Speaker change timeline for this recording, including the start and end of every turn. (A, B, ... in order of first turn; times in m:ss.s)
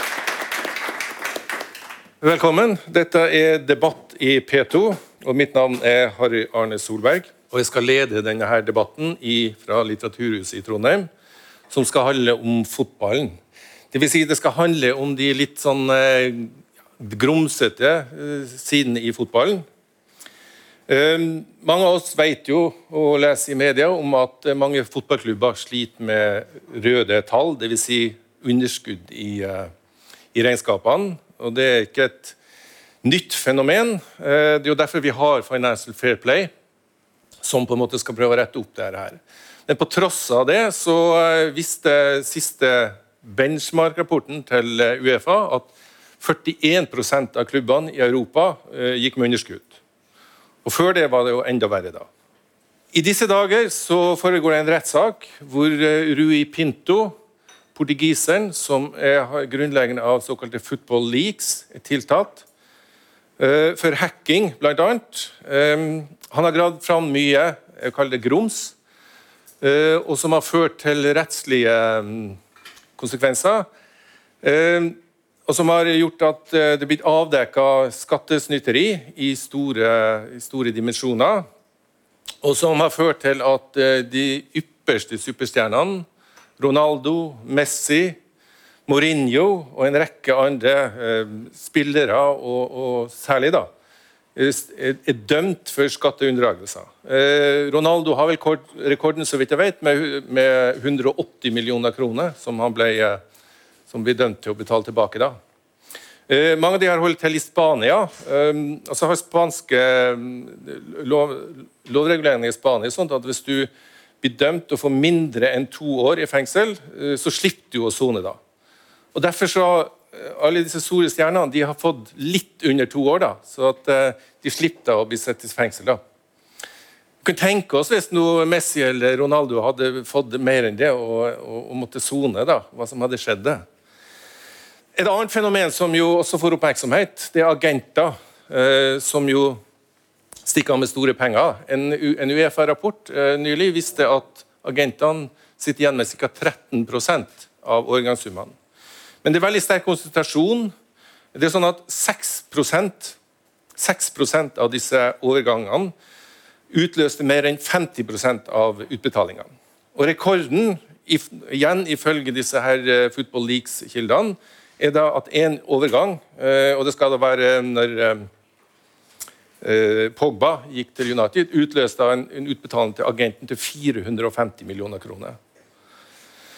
0:02.2-0:11.1 A
0:11.7-0:13.4 A
0:13.9-0:19.6 A
0:20.9-0:29.7 A
0:30.3-0:32.4 A
0:33.0-0:36.5 A
0:37.4-0:45.7 A
0:46.2-0:49.8 A
0:50.6-0:52.1 A
0:52.9-0:57.2 A
0:57.7-1:02.4 A
1:03.4-1:08.7 A
1:09.6-1:12.4 A
1:13.0-1:13.7 A
1:14.4-1:21.5 A
1:22.4-1:26.1 A
1:26.6-1:28.2 A
1:28.9-1:33.7 A
1:34.4-1:43.2 A
1:43.9-1:45.4 A
1:46.3-1:53.7 A
1:54.2-1:58.4 A
1:59.1-2:06.0 A
2:07.2-2:13.6 A
2:15.0-2:19.6 A
2:20.4-2:28.5 A
2:29.2-2:30.7 A
2:31.3-2:33.2 A
2:33.8-2:35.9 A
2:36.7-2:48.3 A
2:49.6-2:55.4 A